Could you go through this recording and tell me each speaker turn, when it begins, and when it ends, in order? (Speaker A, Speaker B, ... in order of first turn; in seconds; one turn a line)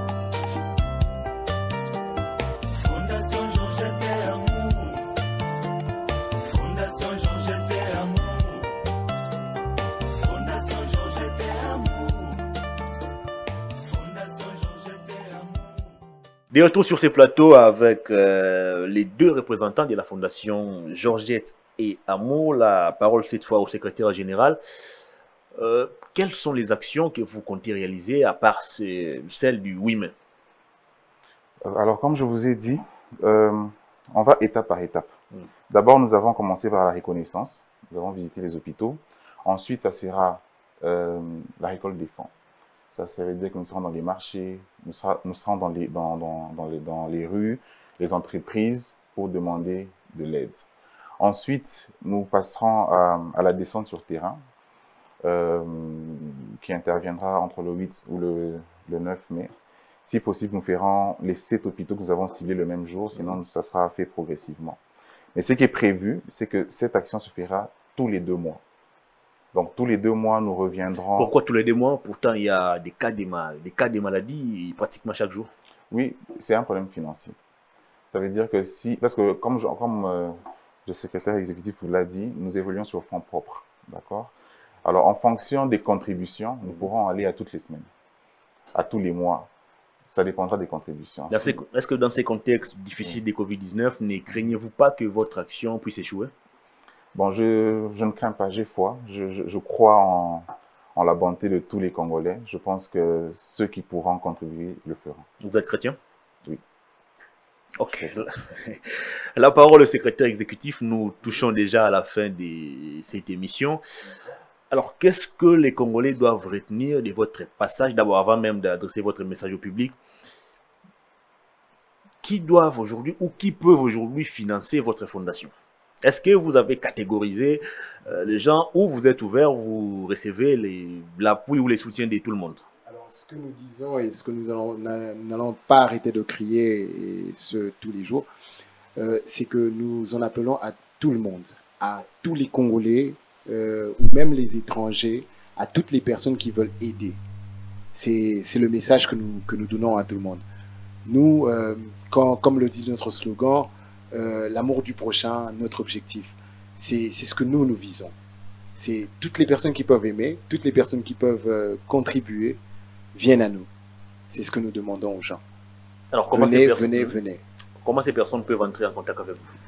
Speaker A: 16.5-24.6
Speaker A: 25.6-30.1
Speaker B: 31.6-35.1
Speaker B: 35.7-42.3
Speaker B: 42.9-50.7
Speaker B: 51.2-54.4
Speaker B: 55.2-59.5
Speaker B: 60.0-64.8
Speaker B: 65.3-68.6
Speaker B: 69.5-71.3
Speaker A: 71.2-75.5
Speaker B: 75.9-77.4
Speaker B: 78.1-84.3
Speaker B: 84.8-87.9
Speaker B: 88.7-89.5
Speaker B: 90.1-91.6
Speaker A: 91.3-96.3
Speaker B: 97.1-105.2
Speaker A: 105.4-106.0
Speaker A: 107.8-113.8
Speaker A: 114.7-120.0
Speaker A: 122.2-132.6
Speaker C: 132.8-138.3
Speaker C: 139.0-147.2
Speaker C: 147.9-150.4
Speaker C: 151.1-158.1
Speaker C: 158.8-162.6
Speaker C: 163.1-163.7
Speaker C: 164.3-165.4
Speaker A: 166.1-167.2
Speaker C: 166.3-167.4
Speaker A: 167.8-169.5